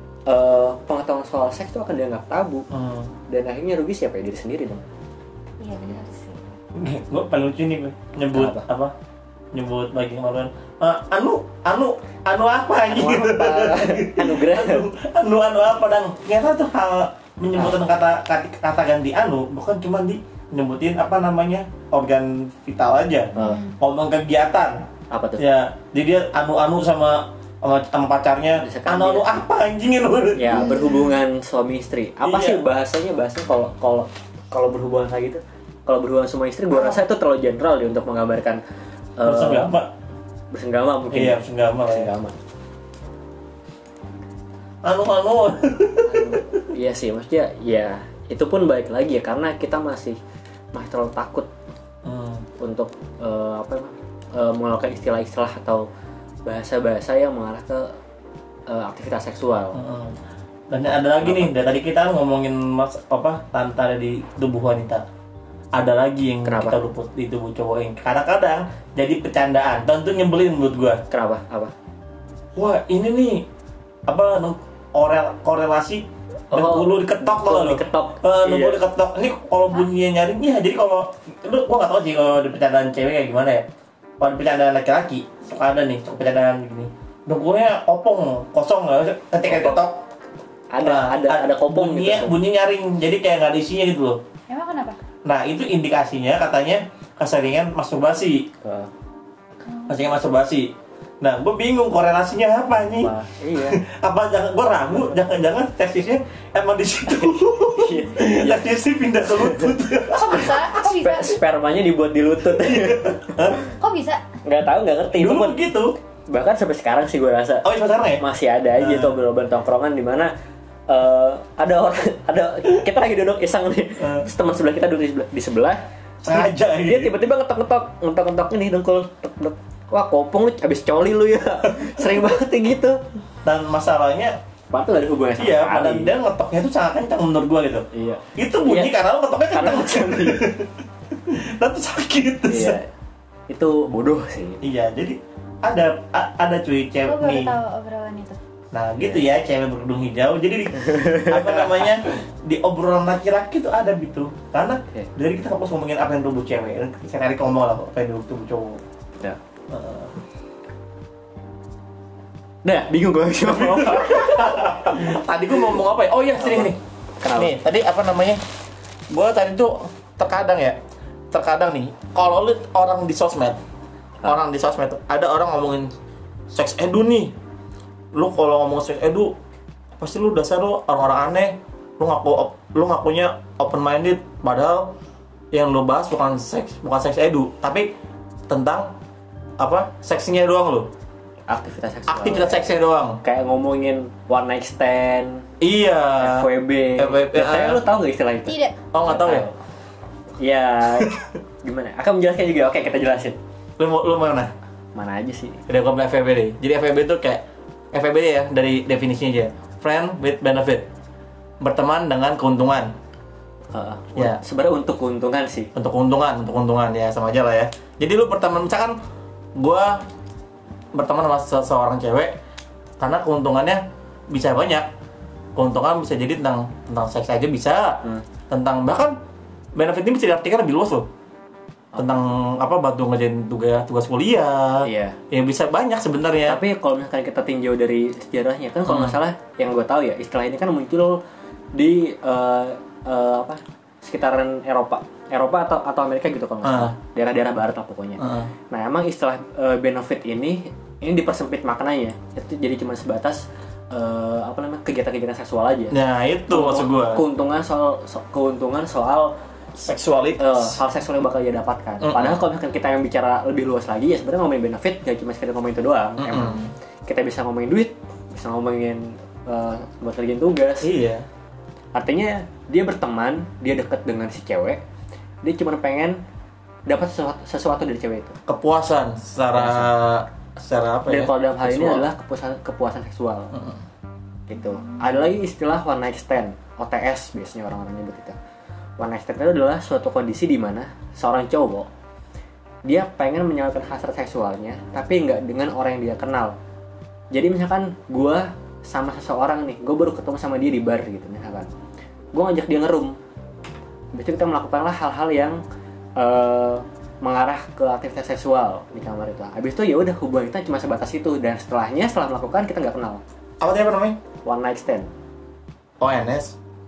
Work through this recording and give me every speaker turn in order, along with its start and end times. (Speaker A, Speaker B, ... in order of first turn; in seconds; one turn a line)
Speaker A: 0.3-2.7
Speaker B: 2.7-3.1
Speaker A: 3.3-4.8
Speaker C: 5.6-6.5
Speaker B: 6.7-8.9
Speaker A: 8.3-8.7
Speaker B: 9.5-30.9
Speaker A: 12.9-14.9
Speaker C: 23.4-23.8
Speaker A: 23.4-23.7
Speaker A: 25.1-25.4
Speaker A: 28.6-29.3
Speaker A: 30.4-38.6
Speaker C: 30.6-31.2
Speaker B: 32.2-32.6
Speaker B: 36.7-37.0
Speaker A: 39.2-39.7
Speaker B: 39.2-39.9
Speaker A: 40.5-42.4
Speaker B: 41.1-42.1
Speaker B: 44.8-46.4
Speaker A: 46.1-50.2
Speaker A: 50.7-51.5
Speaker B: 52.0-52.5
Speaker A: 52.6-55.9
Speaker A: 56.5-57.9
Speaker A: 58.7-59.8
Speaker B: 59.7-60.2
Speaker B: 60.7-65.0
Speaker A: 61.2-61.5
Speaker B: 65.7-71.0
Speaker A: 66.5-66.8
Speaker A: 71.1-71.7
Speaker B: 72.6-73.5
Speaker B: 74.1-83.7
Speaker A: 76.5-78.8
Speaker B: 84.2-90.0
Speaker A: 89.5-89.8
Speaker A: 90.7-92.4
Speaker B: 90.8-94.2
Speaker C: 94.5-95.0
Speaker B: 95.2-98.5
Speaker A: 98.6-98.9
Speaker C: 99.7-100.0
Speaker B: 99.9-110.7
Speaker A: 103.0-103.8
Speaker A: 107.1-108.6
Speaker A: 109.4-109.8
Speaker C: 110.1-111.4
Speaker A: 110.4-113.6
Speaker B: 112.7-113.6
Speaker C: 113.8-114.2
Speaker A: 114.5-115.6
Speaker B: 115.2-116.0
Speaker A: 116.3-117.7
Speaker B: 117.6-118.2
Speaker A: 118.2-120.3
Speaker B: 118.8-119.2
Speaker A: 120.9-133.0
Speaker B: 124.0-124.3
Speaker B: 126.2-127.2
Speaker B: 133.4-134.4
Speaker A: 134.7-136.1
Speaker B: 135.4-140.7
Speaker A: 137.9-139.0
Speaker A: 139.5-140.5
Speaker B: 141.2-142.8
Speaker A: 142.5-142.9
Speaker A: 143.5-144.6
Speaker B: 144.6-147.5
Speaker C: 147.0-148.4
Speaker B: 148.7-158.8
Speaker A: 150.8-151.9
Speaker B: 159.7-160.1
Speaker A: 162.7-165.1
Speaker B: 163.4-166.8
Speaker A: 166.4-167.6
Speaker B: 167.3-168.4
Speaker B: 169.1-170.8
Speaker B: 171.3-173.6
Speaker B: 174.2-175.9
Speaker B: 176.5-177.3
Speaker B: 178.1-179.4
Speaker B: 180.0-184.9
Speaker B: 185.5-187.9
Speaker B: 188.5-188.9
Speaker B: 189.6-190.9
Speaker A: 191.5-192.7
Speaker B: 192.1-193.2
Speaker A: 193.2-195.5
Speaker B: 195.6-197.8
Speaker A: 196.2-199.6
Speaker C: 198.5-198.7
Speaker B: 198.9-199.5
Speaker A: 200.4-203.4
Speaker B: 203.8-204.5
Speaker A: 204.9-205.6
Speaker B: 205.7-210.9
Speaker B: 211.6-212.9
Speaker A: 213.7-215.7
Speaker B: 215.8-219.0
Speaker B: 219.6-220.1
Speaker B: 220.9-222.4
Speaker B: 223.0-224.9
Speaker B: 225.6-229.2
Speaker B: 229.8-231.1
Speaker A: 231.9-232.2
Speaker B: 232.0-236.6
Speaker A: 234.8-235.2
Speaker A: 236.5-241.2
Speaker B: 238.9-239.2
Speaker A: 241.7-256.0
Speaker B: 246.6-246.9
Speaker B: 248.2-248.5
Speaker B: 255.9-257.2
Speaker A: 256.5-259.3
Speaker B: 259.8-260.7
Speaker A: 260.4-270.9
Speaker B: 262.0-262.4
Speaker B: 266.2-266.7
Speaker B: 270.8-271.2
Speaker A: 271.9-274.8
Speaker A: 275.4-276.2
Speaker A: 276.9-278.4
Speaker B: 278.5-282.1
Speaker A: 279.6-279.9
Speaker A: 281.1-283.5
Speaker B: 283.5-283.8
Speaker A: 284.5-288.4
Speaker A: 289.0-291.9
Speaker A: 292.9-296.6
Speaker A: 297.3-301.7
Speaker A: 302.3-303.2
Speaker A: 304.1-305.6
Speaker A: 306.2-313.2
Speaker B: 313.6-314.2
Speaker A: 314.4-315.1
Speaker B: 316.0-316.6